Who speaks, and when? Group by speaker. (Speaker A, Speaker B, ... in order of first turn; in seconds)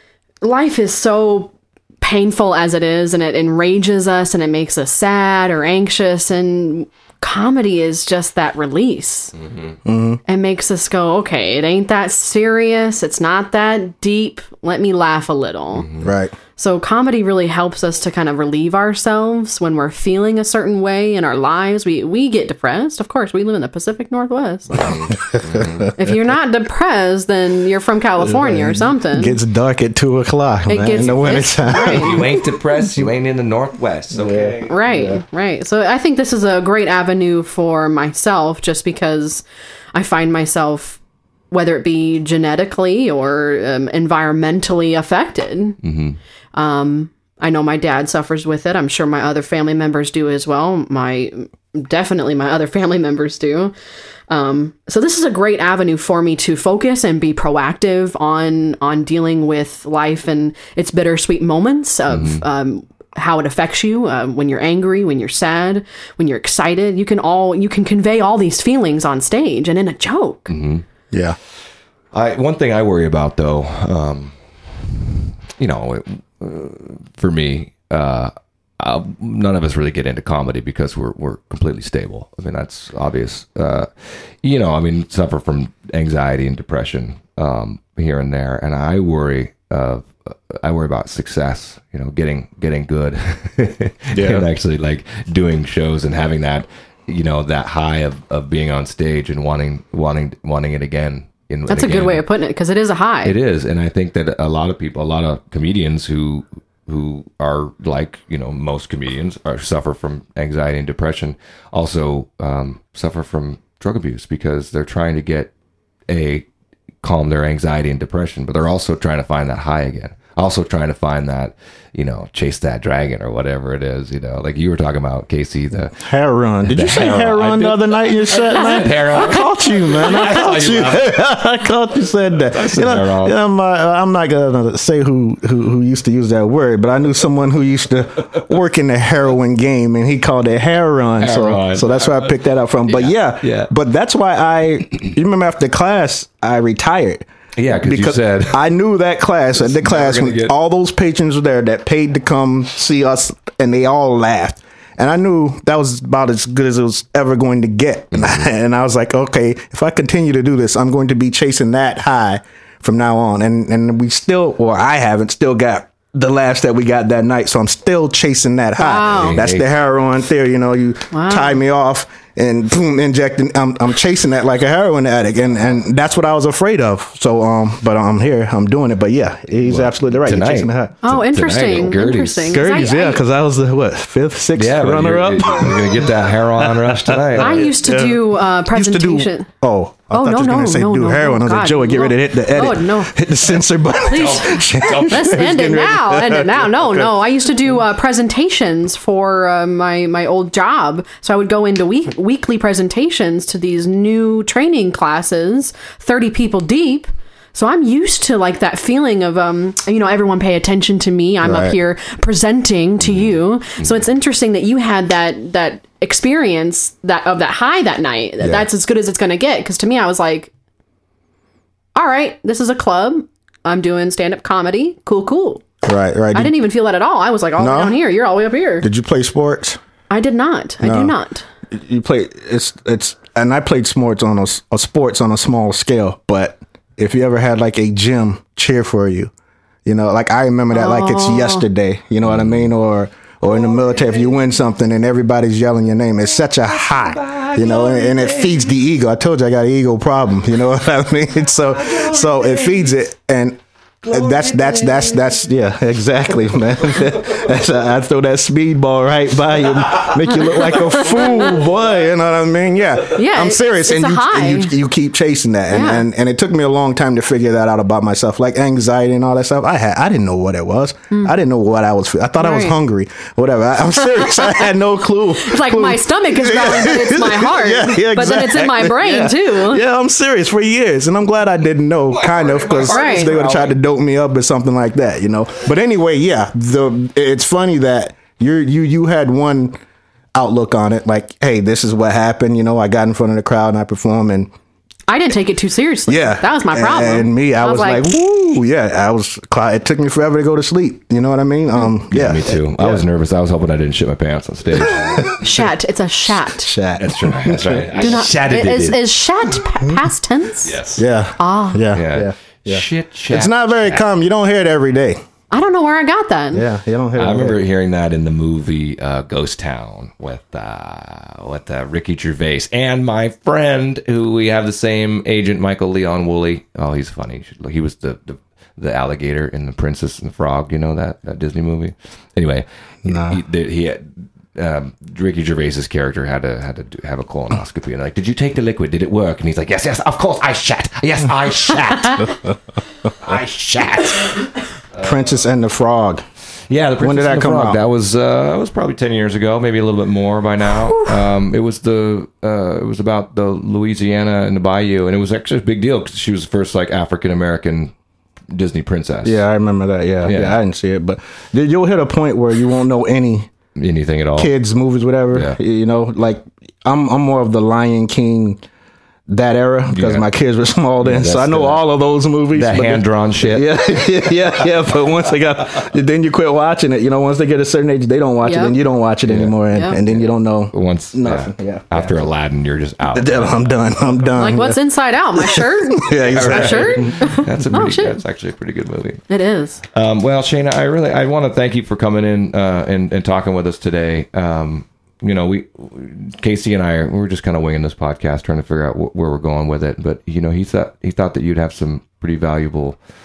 Speaker A: 0.4-9.3, 10.3-15.9, 16.6-24.9, 26.0-29.4, 30.7-32.2, 34.7-41.0, 41.5-45.8, 46.5-53.7, 54.3-70.5, 101.7-103.4, 168.8-169.4, 171.1-171.6, 181.0-183.2, 187.4-189.5, 190.1-193.1, 194.0-220.5, 221.9-225.6, 226.3-228.9, 230.1-231.4, 240.7-241.6, 261.2-261.5, 263.1-264.8, 265.7-266.1, 272.4-272.8, 274.2-274.6, 275.4-279.8, 282.9-283.3, 295.1-298.1, 305.4-306.8, 308.0-310.8, 311.4-311.9, 315.5-316.6, 378.4-378.8, 384.4-388.2, 389.3-389.8
Speaker B: 9.4-9.8, 15.8-16.1, 24.8-25.9, 31.7-34.8, 45.8-46.2, 62.1-62.4, 70.5-70.8, 72.1-102.2, 103.2-115.5, 116.1-116.5, 117.0-126.0, 126.7-131.2, 132.5-133.4, 141.2-142.3, 142.9-143.7, 147.6-148.6, 149.6-150.5, 158.1-158.4, 169.1-169.7, 179.6-182.6, 184.6-187.7, 194.0-195.4, 242.2-242.7, 243.5-244.4, 246.5-248.7, 251.7-252.9, 254.0-255.5, 260.6-261.5, 282.1-283.8, 302.1-305.6, 307.0-309.1, 310.6-311.0, 311.9-314.1, 317.2-342.5, 343.1-345.4, 346.7-357.9, 358.5-359.4, 360.2-360.6, 363.8-364.5, 369.9-370.3, 371.0-371.8, 372.5-373.9, 379.3-383.6, 386.2-389.2, 389.9-403.0
Speaker C: 9.8-10.2, 16.0-16.4, 25.3-25.9, 28.2-32.4, 34.2-35.2, 71.1-71.4, 94.1-94.5, 126.0-180.9, 182.5-197.3, 211.4-211.8, 218.4-218.7, 225.8-226.6, 227.6-228.0, 228.8-229.8, 230.8-231.1, 231.7-239.3, 239.8-289.8, 290.4-294.5, 296.1-303.1, 304.8-305.5, 306.5-308.2, 311.0-315.2, 316.5-317.6, 333.1-333.4, 345.0-346.2, 347.0-347.8, 359.2-363.5, 364.4-368.6, 369.3-382.1, 383.1-384.8, 385.4-387.2